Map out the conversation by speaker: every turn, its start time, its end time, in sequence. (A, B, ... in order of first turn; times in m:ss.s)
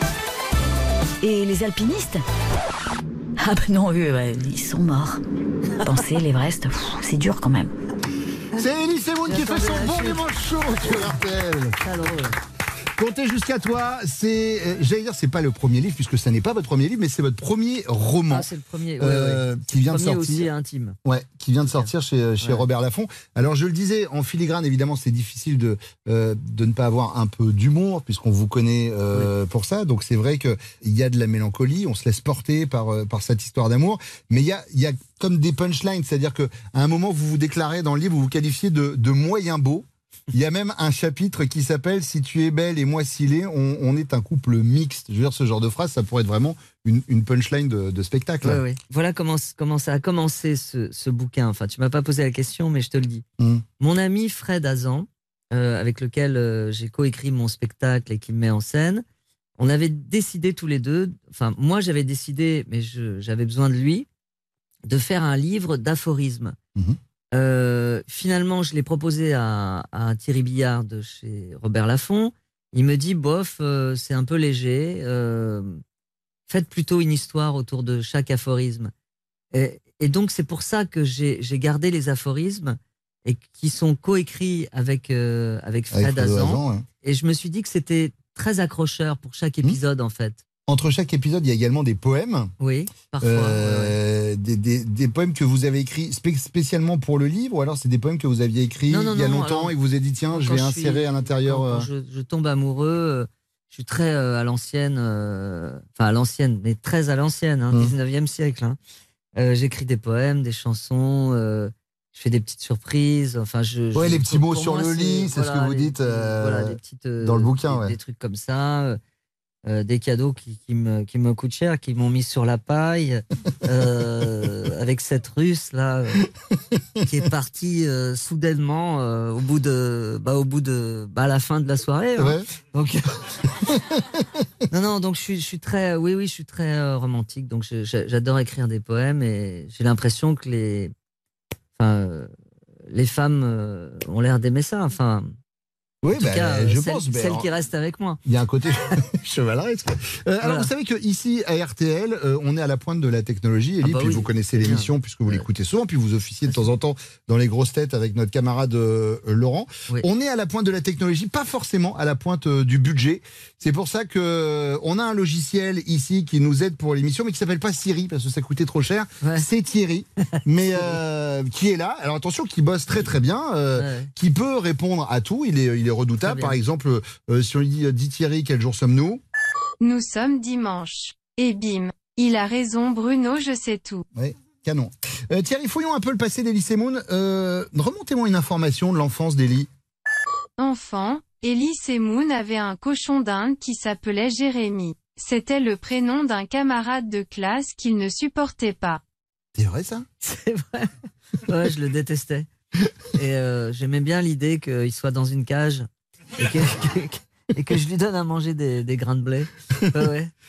0:01.2-0:02.2 A
0:03.4-0:05.2 A
0:05.8-0:07.7 A
0:08.6-0:11.8 B
0:09.3-0:10.2 C
0:11.8-0:12.4 C
0:13.0-0:18.5 B
0:18.3-0:21.0 C
0:19.0-0:20.5 B
0:21.0-0:48.6 B
0:21.6-0:21.9 C
0:48.4-0:53.2 C
0:53.4-0:53.6 B
0:53.8-0:59.0 C
0:59.6-1:04.1 C
1:04.9-1:06.6 C
1:07.3-1:15.8 C
1:16.5-1:18.9 C
1:19.5-1:30.4 C
1:25.9-1:26.9 B
1:30.7-1:32.5 B
1:32.6-1:34.0 C
1:33.2-1:41.9 B
1:38.9-1:39.7 C
1:40.3-1:48.8 C
1:49.4-1:59.0 C
1:54.0-1:58.0 B
1:59.7-2:06.2 C
2:06.8-2:07.1 B
2:07.0-2:13.3 C
2:12.2-2:12.5 B
2:13.7-2:14.4 B
2:14.7-2:20.9 C
2:21.8-2:22.3 C
2:22.9-2:25.3 C
2:26.0-2:27.5 B
2:26.1-2:28.2 C
2:28.2-2:59.2 B
2:30.4-2:30.7 C
2:33.8-2:35.5 C
2:36.5-2:36.7 C
2:49.2-2:49.5 C
2:53.8-2:54.1 C
2:56.2-2:56.6 C
2:59.8-3:04.1 D
3:04.1-3:09.7 B
3:10.6-3:19.0 D
3:19.6-3:20.1 B
3:20.2-3:20.9 C
3:21.4-3:22.5 C
3:23.1-3:30.3 C